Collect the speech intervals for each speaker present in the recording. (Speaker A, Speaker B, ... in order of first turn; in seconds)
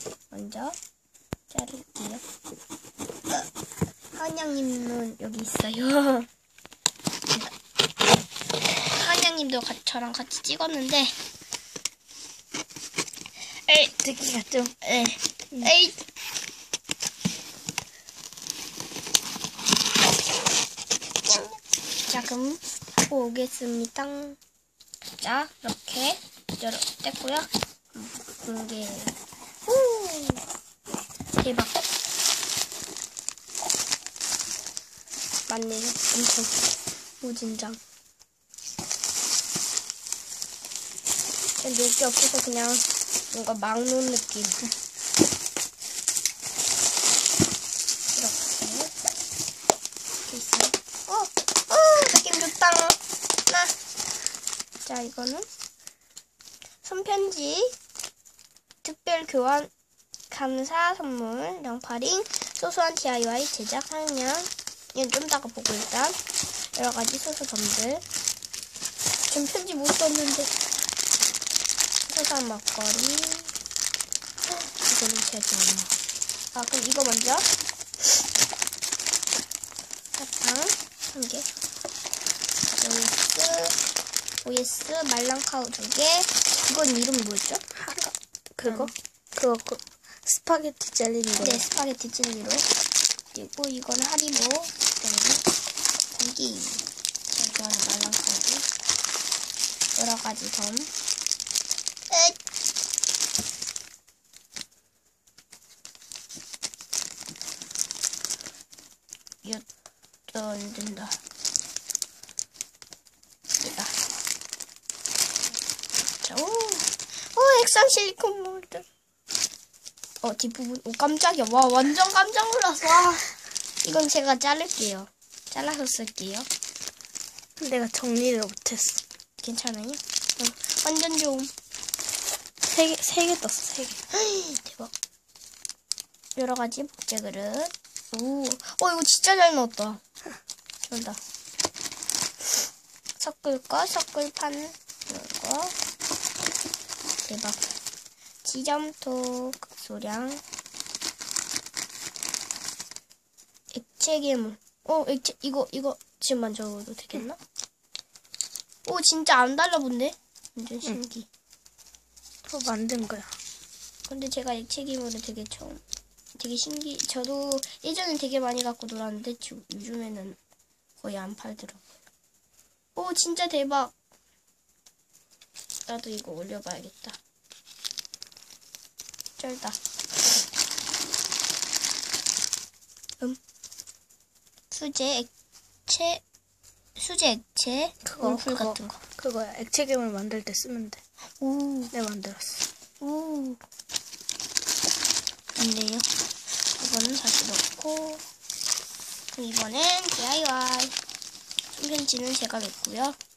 Speaker A: 0.3-0.8, 1.5-2.2, 4.1-6.3, 8.8-11.1, 13.7-13.9, 14.8-16.0, 21.2-24.4, 25.2-29.1, 29.6-30.4, 31.4-31.8, 35.5-36.6, 37.2-37.8, 41.6-44.7, 48.1-48.9, 50.2-53.7, 54.8-55.5, 56.8-57.8, 58.8-59.7, 60.3-66.2, 66.7-68.0, 69.3-70.5, 72.1-73.5, 74.8-75.9, 76.5-77.5, 80.2-81.5, 82.7-83.8, 84.4-88.9, 91.4-92.7, 93.3-95.4, 96.1-98.7, 99.9-100.9, 102.1-102.4, 110.3-111.2, 113.6-114.0, 116.2-118.8, 120.2-126.5, 129.4-131.5, 134.1-134.9, 136.3-140.0, 140.8-141.2, 143.2-145.7, 147.2-147.7, 148.4-150.4, 153.7-157.4, 158.8-161.3, 164.1-165.8, 166.3-170.4, 171.0-171.8, 172.9-173.9, 175.9-177.2, 179.4-180.5, 184.7-185.3, 185.9-186.2, 186.9-189.0, 191.4-191.9, 193.0-193.6, 195.6-196.1, 196.7-198.2, 199.3-200.9, 201.7-203.2
Speaker B: 14.0-14.8, 88.5-91.6, 127.6-129.0, 132.7-134.0, 162.4-163.4, 188.0-191.0, 191.9-192.7